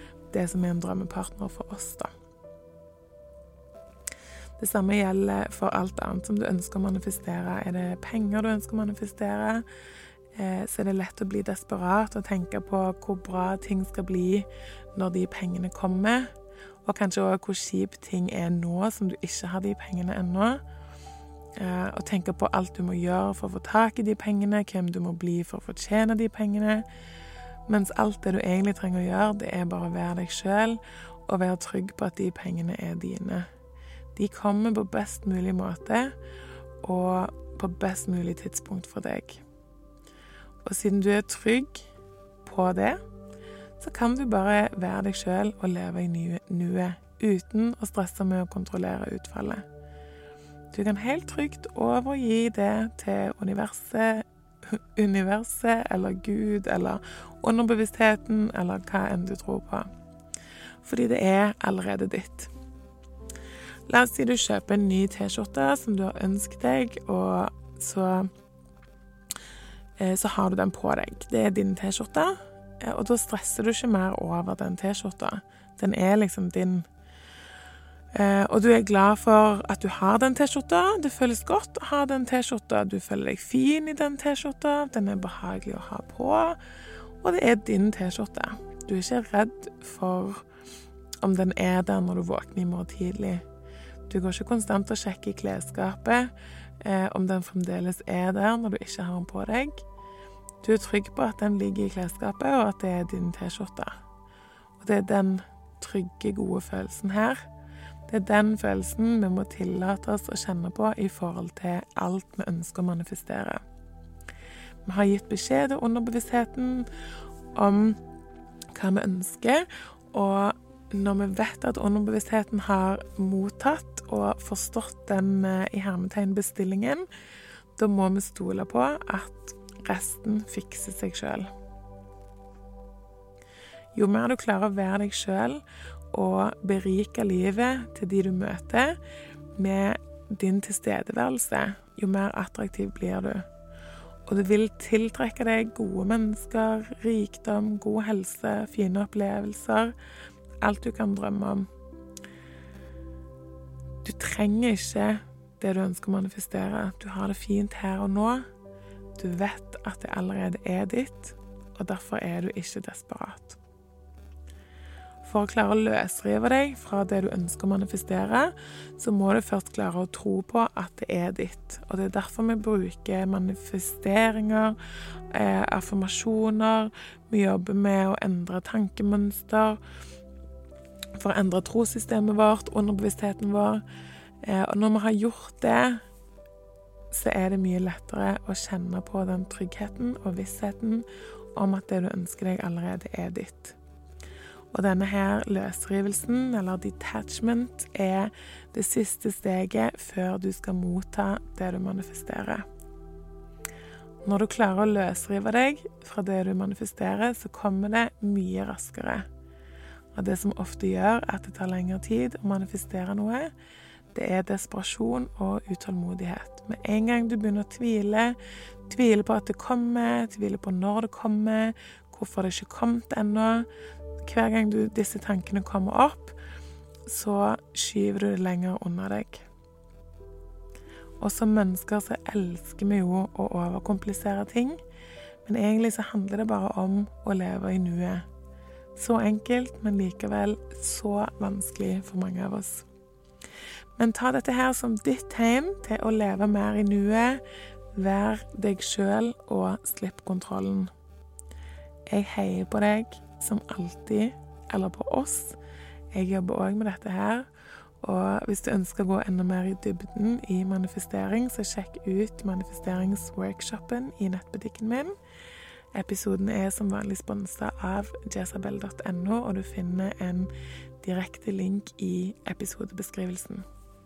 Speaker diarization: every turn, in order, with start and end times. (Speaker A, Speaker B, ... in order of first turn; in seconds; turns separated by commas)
Speaker A: 0.3-2.1, Speaker A: 4.6-9.7, Speaker A: 10.3-20.6, Speaker A: 21.6-26.9, Speaker A: 27.7-33.5, Speaker A: 34.1-36.1, Speaker A: 36.8-39.4, Speaker A: 40.6-41.9, Speaker A: 42.4-43.0, Speaker A: 43.8-49.6, Speaker A: 50.7-59.9, Speaker A: 60.8-62.5, Speaker A: 63.9-68.3, Speaker A: 70.0-76.9, Speaker A: 78.1-86.6, Speaker A: 87.2-90.5, Speaker A: 91.2-93.4, Speaker A: 94.1-99.8, Speaker A: 100.6-104.0, Speaker A: 104.8-107.5, Speaker A: 108.1-113.6, Speaker A: 114.8-116.9, Speaker A: 117.5-118.0, Speaker A: 118.7-127.1, Speaker A: 127.8-131.5, Speaker A: 133.9-139.0, Speaker A: 139.5-143.5, Speaker A: 144.3-149.9, Speaker A: 150.6-151.7, Speaker A: 154.0-158.4, Speaker A: 159.2-163.6, Speaker A: 165.2-174.8, Speaker A: 175.3-179.8, Speaker A: 181.1-183.8, Speaker A: 184.4-186.0, Speaker A: 187.1-193.8, Speaker A: 194.7-202.6, Speaker A: 204.2-209.2, Speaker A: 210.1-213.5, Speaker A: 214.1-218.4, Speaker A: 218.9-223.7, Speaker A: 224.2-226.4, Speaker A: 227.1-229.5, Speaker A: 231.2-234.8, Speaker A: 235.4-238.2, Speaker A: 238.9-242.9, Speaker A: 244.0-247.4, Speaker A: 247.9-250.9, Speaker A: 252.1-255.6, Speaker A: 256.1-257.5, Speaker A: 258.0-265.1, Speaker A: 265.9-273.6